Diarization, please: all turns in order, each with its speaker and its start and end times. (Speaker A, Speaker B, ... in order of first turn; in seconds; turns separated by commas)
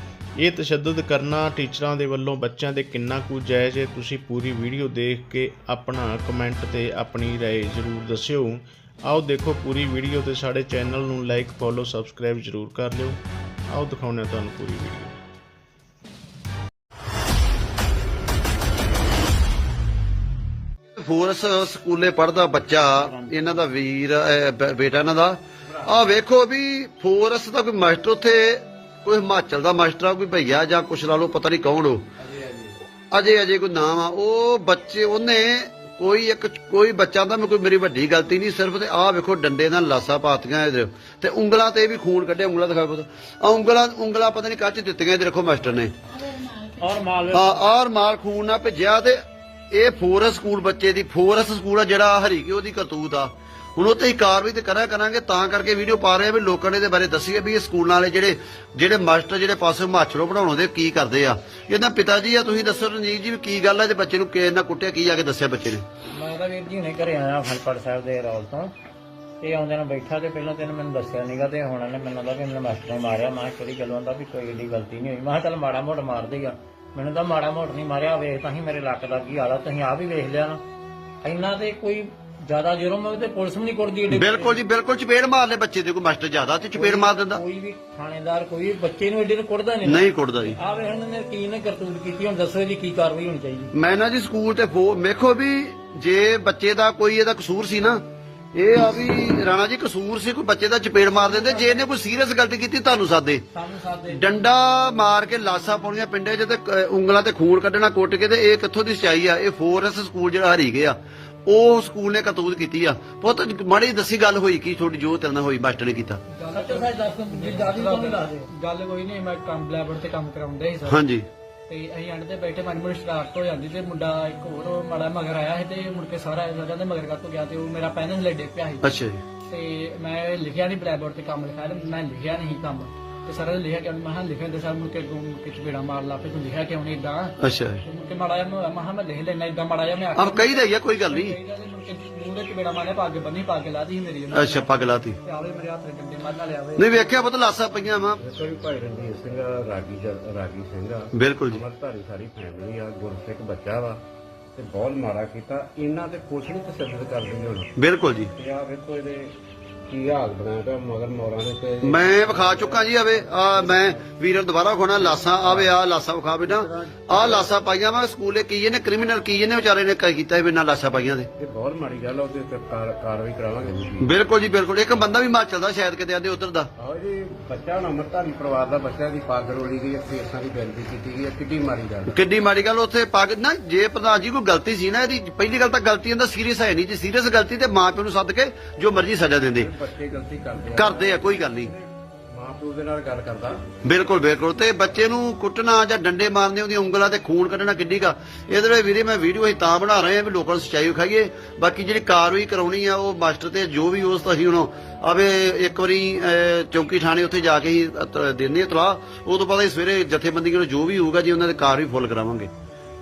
Speaker A: 0.4-15.2, Speaker B: 21.0-32.0, Speaker C: 22.7-23.6, Speaker D: 25.7-25.9, Speaker D: 32.2-32.8, Speaker B: 33.1-45.9, Speaker C: 46.2-47.6, Speaker B: 47.3-49.2, Speaker B: 49.7-65.8, Speaker C: 66.1-68.7, Speaker C: 69.4-80.6, Speaker C: 81.2-84.6, Speaker B: 84.1-87.4, Speaker C: 86.7-93.7, Speaker B: 89.8-90.5, Speaker B: 93.7-98.0, Speaker B: 98.5-103.4, Speaker C: 101.2-101.8, Speaker C: 103.5-104.3, Speaker B: 104.1-111.0, Speaker B: 111.5-116.2, Speaker E: 116.3-121.0, Speaker C: 116.5-118.5, Speaker B: 120.8-121.3, Speaker E: 121.7-128.9, Speaker B: 128.8-129.2, Speaker E: 129.4-147.3, Speaker B: 137.4-137.8, Speaker B: 140.1-141.3, Speaker B: 144.3-145.2, Speaker B: 146.8-148.2, Speaker D: 148.2-154.0, Speaker B: 151.1-151.6, Speaker D: 154.5-157.7, Speaker B: 157.8-158.3, Speaker D: 158.3-159.3, Speaker D: 159.9-164.1, Speaker B: 161.8-171.3, Speaker D: 164.9-165.7, Speaker D: 166.4-167.5, Speaker D: 171.4-174.1, Speaker B: 174.0-176.7, Speaker D: 176.8-182.2, Speaker B: 182.1-189.7, Speaker D: 189.6-193.7, Speaker B: 190.7-191.7, Speaker B: 193.8-212.5